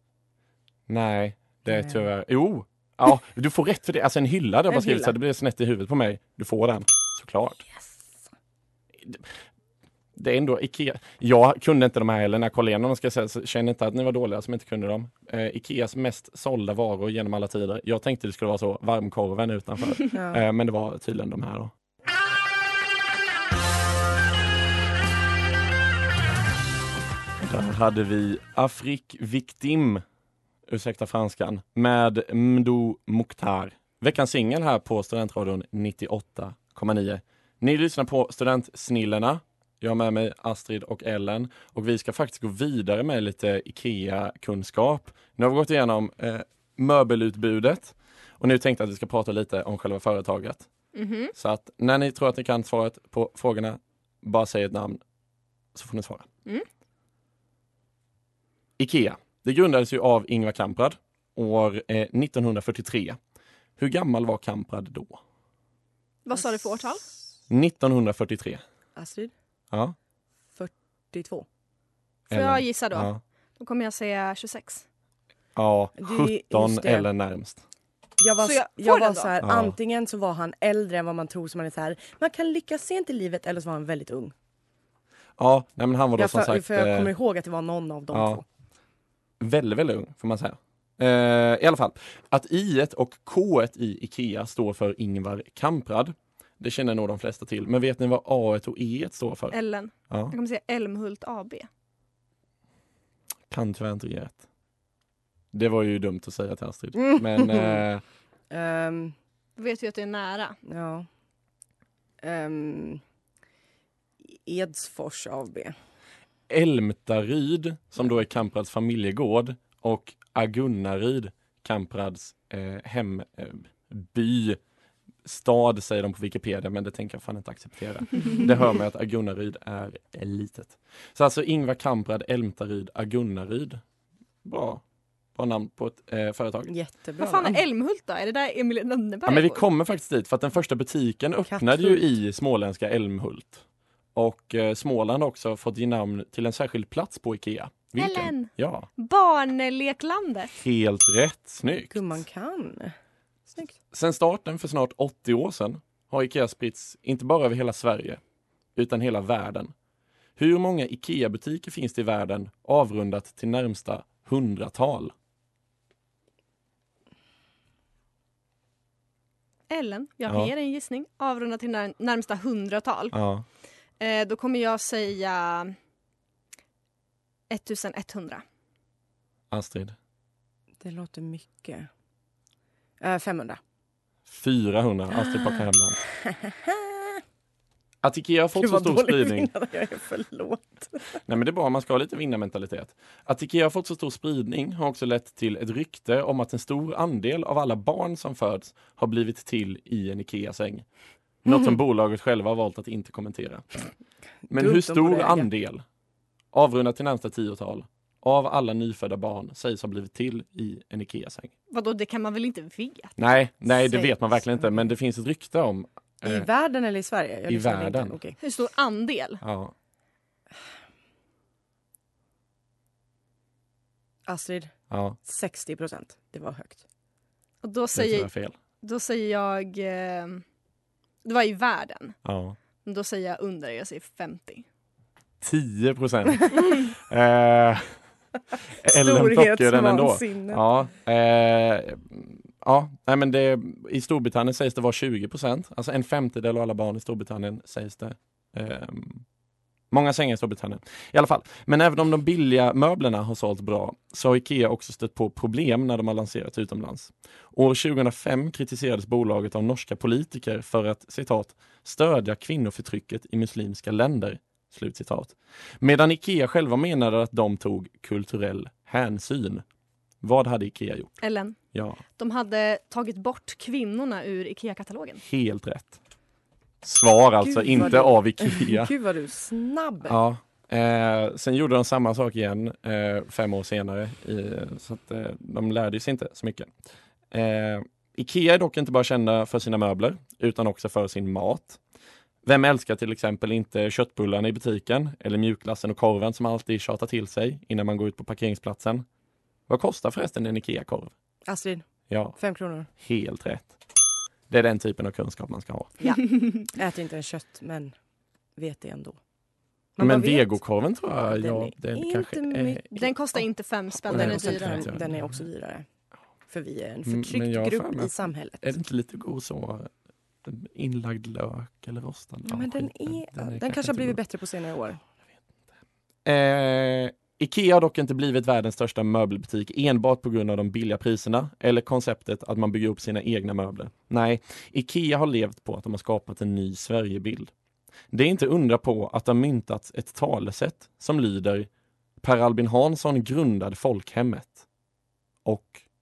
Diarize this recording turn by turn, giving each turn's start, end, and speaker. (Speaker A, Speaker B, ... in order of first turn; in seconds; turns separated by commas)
Speaker A: 0.9-7.6, Speaker B: 1.7-2.0, Speaker B: 4.7-5.1, Speaker A: 10.2-21.7, Speaker B: 20.1-20.4, Speaker A: 27.4-30.0, Speaker A: 30.7-50.7, Speaker C: 50.9-51.3, Speaker A: 51.3-55.0, Speaker A: 55.7-56.3, Speaker A: 58.8-63.2, Speaker A: 63.8-65.2, Speaker C: 66.2-67.0, Speaker A: 67.5-68.6, Speaker B: 69.0-69.3, Speaker B: 70.5-71.5, Speaker A: 72.3-73.2, Speaker C: 72.3-74.8, Speaker A: 75.5-77.6, Speaker B: 76.0-77.1, Speaker B: 78.2-84.3, Speaker C: 78.4-79.3, Speaker A: 79.4-79.7, Speaker A: 85.4-87.1, Speaker B: 86.2-88.4, Speaker A: 88.1-88.4, Speaker A: 89.4-99.5, Speaker C: 99.5-101.7, Speaker A: 100.1-100.3, Speaker A: 103.5-104.4, Speaker A: 105.5-108.0, Speaker B: 107.0-107.8, Speaker B: 108.5-109.1, Speaker C: 109.5-110.6, Speaker B: 110.7-111.1, Speaker B: 112.2-113.0, Speaker B: 114.2-115.8, Speaker A: 116.5-124.6, Speaker A: 125.2-133.8, Speaker A: 134.4-134.8, Speaker A: 135.4-136.7, Speaker B: 136.7-137.6, Speaker C: 137.2-139.6, Speaker A: 139.2-143.6, Speaker B: 141.5-142.0, Speaker A: 144.1-148.9, Speaker C: 148.0-150.5, Speaker A: 150.5-152.2, Speaker B: 151.9-152.9, Speaker A: 153.9-158.2, Speaker A: 158.8-159.7, Speaker A: 160.4-165.1, Speaker C: 169.7-173.1, Speaker A: 173.1-173.4, Speaker C: 174.0-175.7, Speaker C: 177.5-178.4, Speaker A: 179.5-179.9, Speaker B: 180.8-181.9, Speaker B: 183.0-183.6, Speaker A: 184.3-186.0, Speaker B: 185.6-187.2, Speaker A: 188.0-189.5, Speaker B: 188.6-191.2, Speaker A: 191.2-200.8, Speaker A: 201.4-203.8, Speaker B: 204.5-205.5, Speaker A: 204.5-205.8, Speaker A: 206.5-211.5, Speaker C: 211.7-213.2, Speaker A: 213.2-216.5, Speaker B: 216.2-218.4, Speaker A: 217.5-218.2, Speaker C: 218.4-219.4, Speaker A: 219.4-219.7, Speaker B: 224.3-226.8, Speaker A: 224.9-225.2, Speaker C: 227.6-228.3, Speaker A: 228.0-228.5, Speaker C: 228.8-230.4, Speaker C: 231.2-232.2, Speaker A: 232.2-232.6, Speaker C: 232.8-234.7, Speaker A: 235.4-238.0, Speaker A: 238.8-249.2, Speaker B: 238.8-240.6, Speaker A: 249.9-269.6, Speaker A: 270.2-271.2, Speaker C: 271.2-271.6, Speaker A: 271.7-272.0, Speaker C: 272.2-275.2, Speaker A: 275.2-276.0, Speaker A: 276.8-278.9, Speaker B: 277.4-280.2, Speaker A: 280.1-286.7, Speaker A: 287.3-291.8, Speaker A: 292.4-299.1, Speaker A: 299.7-301.1, Speaker B: 301.5-302.9, Speaker A: 302.1-303.8, Speaker A: 304.5-305.9, Speaker B: 306.0-307.9, Speaker B: 308.6-309.2, Speaker B: 310.0-310.6, Speaker A: 310.0-313.4, Speaker B: 311.3-312.8, Speaker C: 312.9-314.9, Speaker A: 314.0-315.4, Speaker B: 314.1-315.9, Speaker B: 316.5-318.7, Speaker A: 317.0-319.9, Speaker A: 320.4-324.2, Speaker B: 322.5-325.0, Speaker A: 326.2-337.5, Speaker A: 338.1-341.7, Speaker A: 342.2-344.6, Speaker A: 345.4-345.8